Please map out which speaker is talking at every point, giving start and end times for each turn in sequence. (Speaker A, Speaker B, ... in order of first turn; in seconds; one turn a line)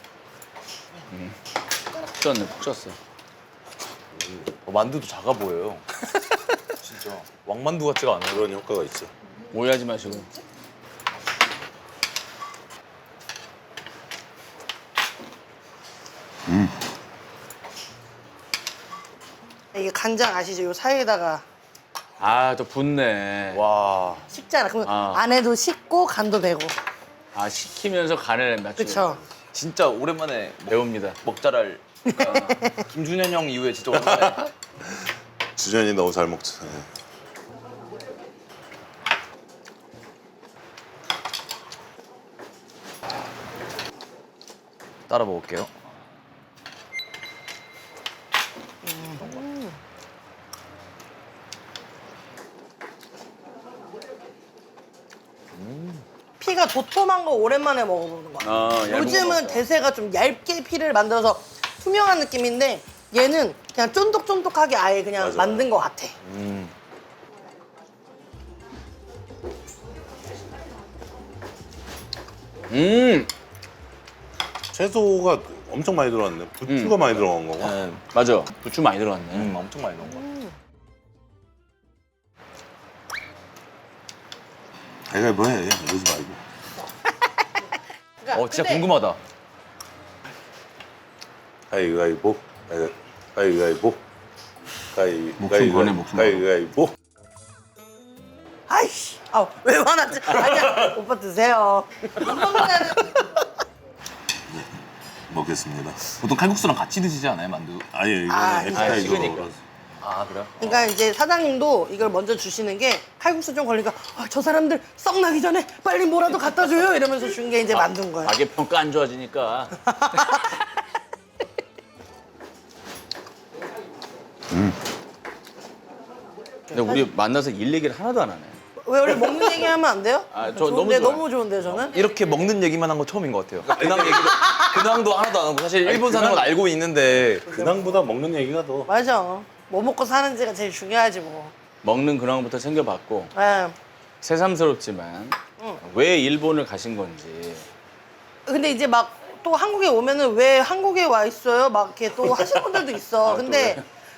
Speaker A: 1.1-1.4
Speaker A: 2.0-3.0
Speaker B: 4.2-4.5
Speaker C: 4.6-5.8
Speaker C: 6.8-8.5
Speaker B: 8.3-9.1
Speaker A: 9.5-10.3
Speaker D: 19.7-21.4
Speaker A: 22.2-23.6
Speaker C: 23.5-24.3
Speaker D: 24.3-26.8
Speaker A: 24.8-25.2
Speaker A: 27.3-29.2
Speaker D: 28.8-29.2
Speaker C: 29.5-34.5
Speaker A: 30.7-31.2
Speaker D: 32.2-32.5
Speaker A: 32.2-32.6
Speaker B: 33.9-34.4
Speaker B: 35.5-36.9
Speaker C: 45.1-45.7
Speaker D: 48.8-49.8
Speaker C: 55.5-56.0
Speaker D: 56.4-66.1
Speaker A: 58.4-59.6
Speaker B: 65.2-65.7
Speaker C: 66.2-66.7
Speaker A: 72.7-73.3
Speaker B: 74.7-77.8
Speaker A: 76.7-77.0
Speaker C: 77.6-78.0
Speaker A: 78.1-79.5
Speaker C: 79.3-80.2
Speaker D: 80.0-80.5
Speaker B: 85.1-86.4
Speaker D: 88.2-88.9
Speaker C: 88.3-89.2
Speaker B: 91.7-94.0
Speaker B: 94.9-96.9
Speaker A: 95.4-96.5
Speaker D: 98.7-103.4
Speaker B: 105.3-106.2
Speaker C: 106.2-107.9
Speaker B: 107.9-109.6
Speaker D: 108.3-109.2
Speaker A: 108.7-109.5
Speaker C: 110.0-110.9
Speaker D: 110.6-118.3
Speaker A: 117.7-119.8
Speaker D: 119.9-120.5
Speaker D: 126.7-127.0
Speaker A: 126.7-128.6
Speaker D: 128.8-132.0
Speaker A: 130.3-131.2
Speaker C: 131.9-137.5
Speaker B: 133.6-134.4
Speaker B: 135.8-136.6
Speaker B: 137.1-138.9
Speaker D: 138.9-141.5
Speaker A: 141.8-143.3
Speaker D: 143.3-143.8
Speaker A: 144.2-147.7
Speaker D: 148.4-153.8
Speaker A: 153.2-153.8